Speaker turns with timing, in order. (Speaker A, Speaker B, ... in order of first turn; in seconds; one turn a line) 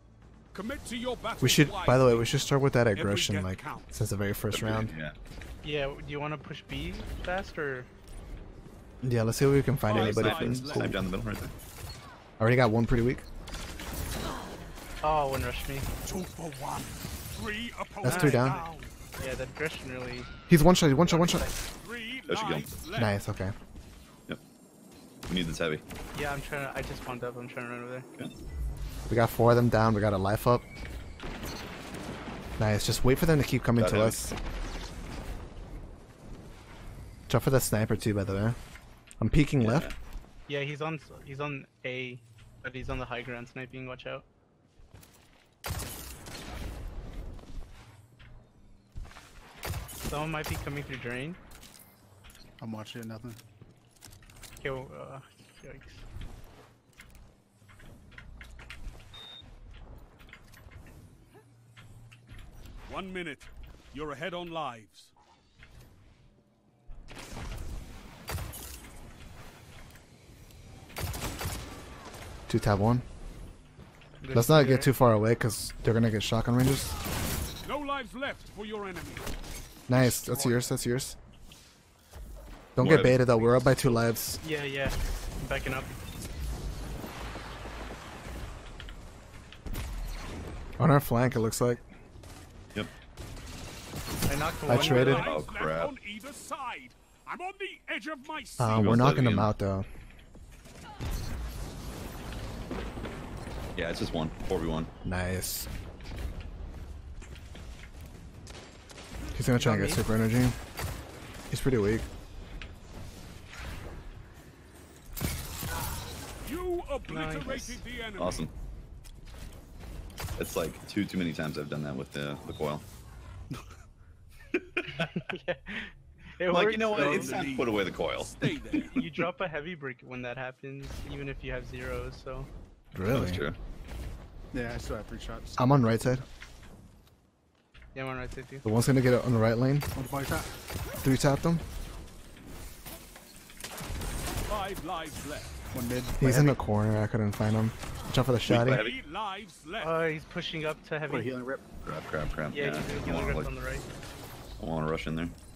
Speaker A: 0.5-2.4
Speaker B: 1.4-4.9
Speaker A: 2.9-3.9
Speaker C: 4.5-5.2
Speaker D: 5.6-7.9
Speaker B: 9.0-11.1
Speaker A: 9.9-11.0
Speaker C: 10.0-11.5
Speaker B: 12.4-13.3
Speaker D: 15.0-15.9
Speaker A: 16.1-18.9
Speaker B: 18.0-18.6
Speaker D: 18.1-20.3
Speaker B: 20.5-21.5
Speaker D: 20.9-21.6
Speaker A: 21.8-23.1
Speaker C: 22.3-22.8
Speaker B: 22.9-23.5
Speaker C: 25.3-25.8
Speaker D: 26.1-28.1
Speaker B: 29.1-30.6
Speaker B: 32.6-34.4
Speaker C: 33.8-34.2
Speaker B: 37.3-38.6
Speaker B: 39.2-39.9
Speaker C: 39.6-40.0
Speaker D: 40.5-44.2
Speaker D: 50.0-51.4
Speaker E: 52.6-53.4
Speaker D: 54.6-56.0
Speaker A: 62.9-65.1
Speaker B: 72.5-73.0
Speaker D: 74.2-74.9
Speaker B: 74.3-76.9
Speaker A: 77.6-79.3
Speaker B: 79.9-81.2
Speaker D: 80.3-80.7
Speaker B: 82.8-84.4
Speaker C: 82.8-83.2
Speaker D: 84.4-85.9
Speaker B: 90.8-91.9
Speaker D: 94.3-95.3
Speaker B: 94.7-95.3
Speaker A: 94.7-99.0
Speaker C: 95.2-96.0
Speaker B: 98.6-99.9
Speaker C: 98.7-99.5
Speaker C: 103.8-104.9
Speaker B: 105.0-105.7
Speaker B: 109.3-110.5
Speaker D: 109.6-110.0
Speaker B: 111.5-112.1
Speaker A: 116.4-118.5
Speaker D: 117.1-117.8
Speaker C: 118.2-118.5
Speaker C: 120.4-122.8
Speaker C: 124.5-124.8
Speaker D: 124.9-127.5
Speaker C: 126.5-128.3
Speaker A: 126.9-129.0
Speaker D: 128.9-132.5
Speaker B: 132.9-133.4
Speaker C: 133.1-133.6
Speaker E: 134.5-136.2
Speaker B: 135.6-136.2
Speaker D: 137.9-138.7
Speaker B: 138.6-139.9
Speaker E: 139.9-140.5
Speaker B: 141.0-141.6
Speaker A: 144.5-145.6
Speaker E: 145.7-146.6
Speaker B: 146.2-148.8
Speaker C: 148.4-149.0
Speaker A: 148.7-149.9
Speaker D: 149.8-151.3
Speaker E: 151.1-151.6
Speaker C: 151.8-153.5
Speaker D: 152.5-153.9
Speaker C: 154.6-155.4